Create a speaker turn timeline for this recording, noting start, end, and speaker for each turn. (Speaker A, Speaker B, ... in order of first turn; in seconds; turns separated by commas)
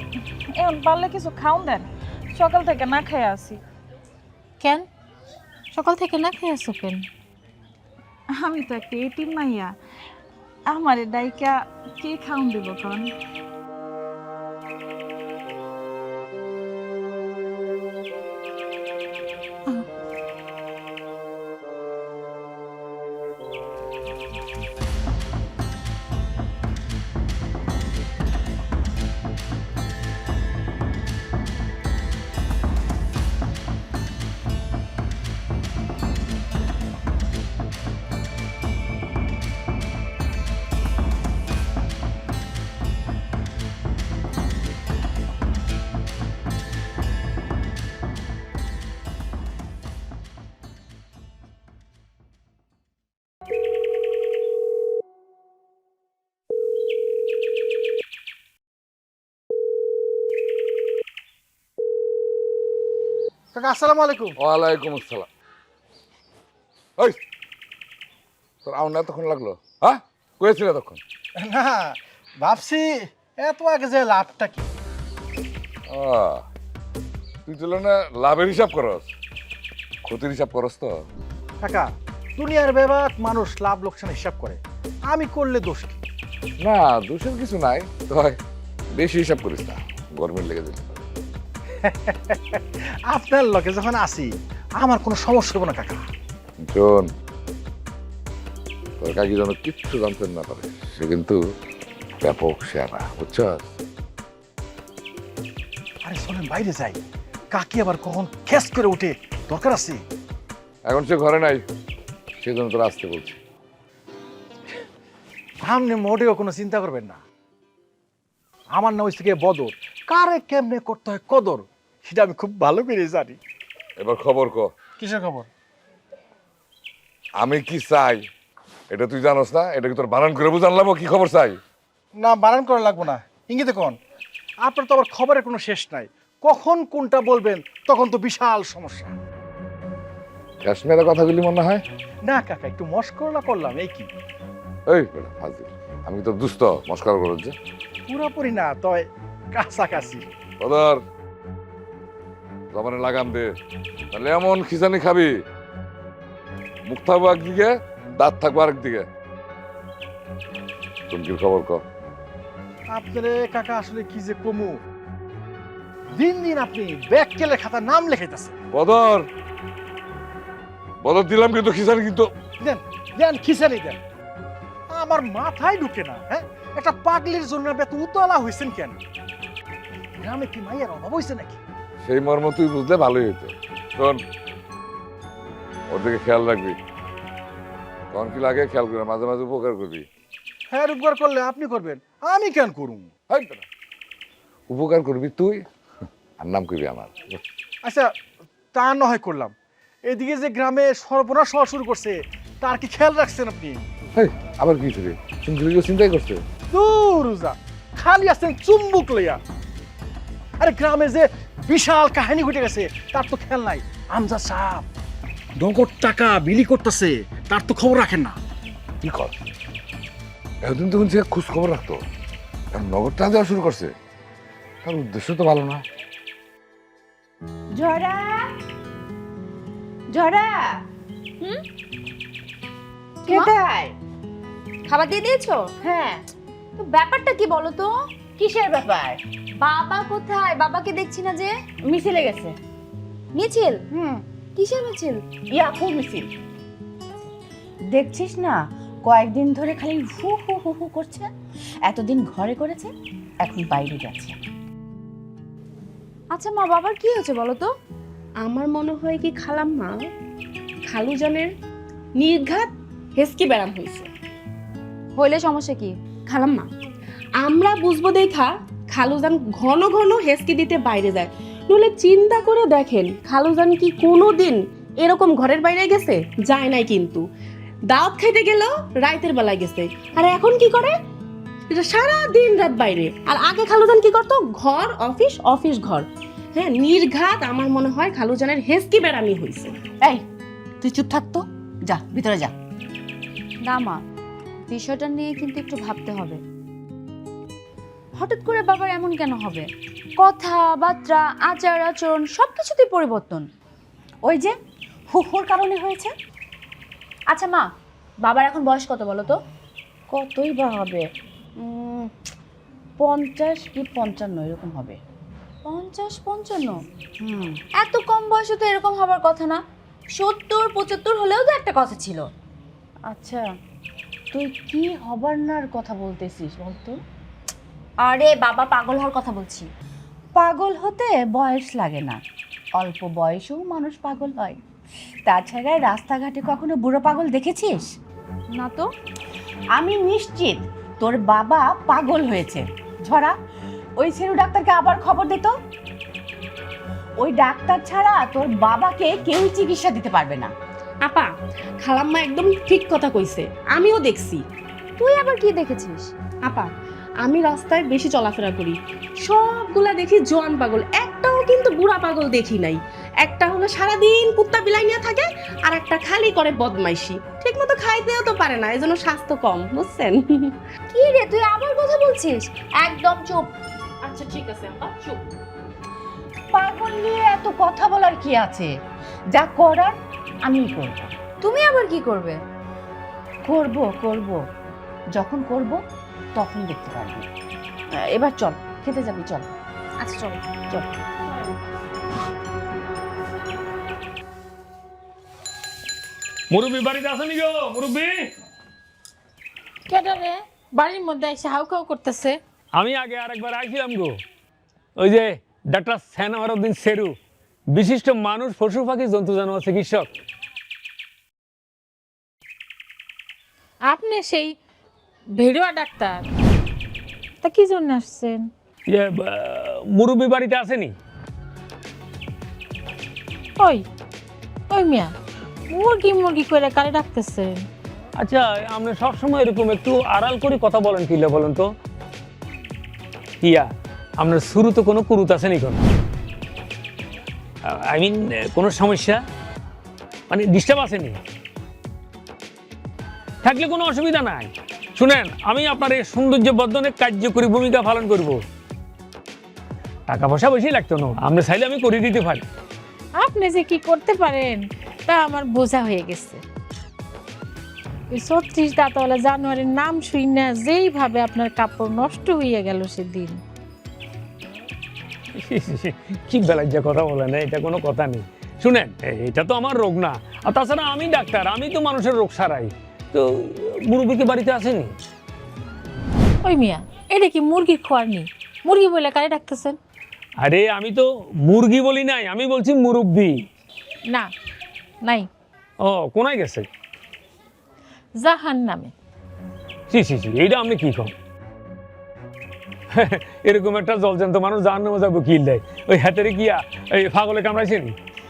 Speaker A: 0.6-3.6, Speaker B: 4.6-4.9, Speaker B: 5.7-7.0, Speaker A: 8.4-9.8, Speaker A: 10.7-13.1, Speaker C: 63.5-64.3, Speaker D: 64.4-65.3, Speaker D: 68.7-71.0, Speaker C: 71.4-72.9, Speaker C: 73.4-74.7, Speaker D: 75.9-76.4, Speaker D: 77.5-79.1, Speaker D: 80.0-81.0, Speaker C: 81.6-81.9, Speaker C: 82.4-84.6, Speaker C: 85.1-86.0, Speaker D: 86.6-88.4, Speaker D: 89.0-91.0, Speaker C: 91.9-94.3, Speaker C: 94.8-96.0, Speaker D: 96.6-97.1, Speaker D: 99.0-101.4, Speaker D: 102.2-103.7, Speaker C: 106.0-107.0, Speaker C: 107.5-110.0, Speaker D: 110.9-111.6, Speaker D: 112.4-113.4, Speaker C: 115.7-117.2, Speaker C: 118.8-123.4, Speaker D: 124.0-124.7, Speaker C: 125.0-125.5, Speaker D: 127.4-128.3, Speaker D: 128.9-131.6, Speaker C: 132.2-134.0, Speaker C: 134.7-139.1, Speaker D: 140.6-141.8, Speaker C: 142.3-144.1, Speaker D: 144.9-147.6, Speaker C: 148.1-149.1, Speaker C: 149.6-150.2, Speaker D: 150.6-151.0, Speaker D: 152.7-153.5, Speaker D: 154.1-155.3, Speaker D: 156.9-159.1, Speaker D: 161.1-161.8, Speaker C: 162.9-164.8, Speaker C: 166.2-168.5, Speaker D: 168.7-169.3, Speaker D: 171.0-172.3, Speaker C: 172.6-174.0, Speaker C: 174.9-179.0, Speaker C: 180.2-181.6, Speaker D: 182.0-184.2, Speaker D: 185.9-186.8, Speaker D: 188.1-190.1, Speaker C: 190.7-193.1, Speaker D: 193.3-193.7, Speaker D: 194.7-195.6, Speaker D: 196.4-197.4, Speaker C: 198.7-199.5, Speaker C: 200.1-203.8, Speaker D: 204.2-206.4, Speaker C: 206.7-209.4, Speaker C: 210.6-214.9, Speaker C: 215.6-218.3, Speaker D: 219.0-219.3, Speaker D: 220.6-222.0, Speaker D: 222.7-223.9, Speaker D: 224.8-225.8, Speaker E: 227.8-228.4, Speaker E: 230.1-230.7, Speaker E: 233.2-233.9, Speaker F: 234.9-235.7, Speaker E: 235.8-236.2, Speaker F: 236.8-237.9, Speaker E: 238.4-239.2, Speaker F: 239.6-241.5, Speaker E: 241.9-242.5, Speaker F: 243.3-243.8, Speaker F: 244.6-245.2, Speaker E: 245.6-246.3, Speaker E: 247.9-251.3, Speaker E: 251.9-252.9, Speaker E: 253.4-254.4, Speaker F: 256.3-257.7, Speaker G: 258.4-260.0, Speaker G: 260.9-261.5, Speaker G: 262.2-264.1, Speaker F: 265.2-265.9, Speaker G: 266.3-266.7, Speaker G: 267.4-277.3, Speaker G: 277.9-280.9, Speaker G: 281.7-289.7, Speaker E: 290.8-292.5, Speaker F: 293.6-294.0, Speaker F: 294.7-296.4, Speaker F: 298.2-299.6, Speaker F: 300.2-303.4, Speaker E: 304.3-304.5, Speaker E: 305.1-306.1, Speaker F: 307.3-307.6, Speaker F: 308.2-309.3, Speaker E: 310.1-311.0, Speaker E: 313.0-315.0, Speaker F: 315.7-316.8, Speaker E: 317.2-317.6, Speaker F: 317.8-319.6, Speaker F: 320.2-322.3, Speaker E: 323.1-323.5, Speaker E: 324.3-327.0, Speaker F: 328.0-329.7, Speaker E: 330.4-332.2, Speaker E: 332.8-334.6, Speaker E: 335.3-337.9, Speaker F: 338.5-338.9, Speaker E: 339.8-343.3, Speaker E: 344.0-345.5, Speaker E: 347.2-350.5, Speaker G: 351.0-354.4, Speaker F: 355.0-356.1, Speaker G: 356.4-356.7, Speaker G: 357.2-370.5, Speaker F: 370.9-373.5, Speaker E: 376.5-378.7, Speaker E: 379.4-379.9, Speaker E: 380.5-381.1, Speaker F: 381.4-382.4, Speaker E: 383.5-384.4, Speaker E: 385.1-385.8, Speaker E: 386.4-387.2, Speaker E: 388.1-389.5, Speaker F: 390.0-390.4, Speaker H: 396.5-398.3, Speaker B: 399.9-402.4, Speaker H: 402.7-404.1, Speaker H: 405.0-407.1, Speaker H: 407.7-410.1, Speaker B: 413.9-414.5, Speaker B: 415.4-416.3, Speaker B: 417.4-418.5, Speaker H: 418.9-420.9, Speaker B: 423.6-423.8, Speaker B: 424.7-425.1, Speaker B: 425.7-427.6, Speaker H: 428.2-431.7, Speaker H: 433.4-433.7, Speaker H: 434.2-435.8, Speaker H: 437.7-439.2, Speaker H: 440.3-441.2, Speaker H: 443.4-448.4, Speaker H: 450.1-452.4, Speaker B: 453.2-456.4, Speaker B: 458.1-463.4, Speaker H: 465.4-474.9, Speaker B: 476.4-479.8, Speaker H: 480.4-483.4, Speaker H: 485.8-486.7, Speaker B: 488.2-488.9, Speaker H: 489.9-491.1, Speaker H: 492.9-497.9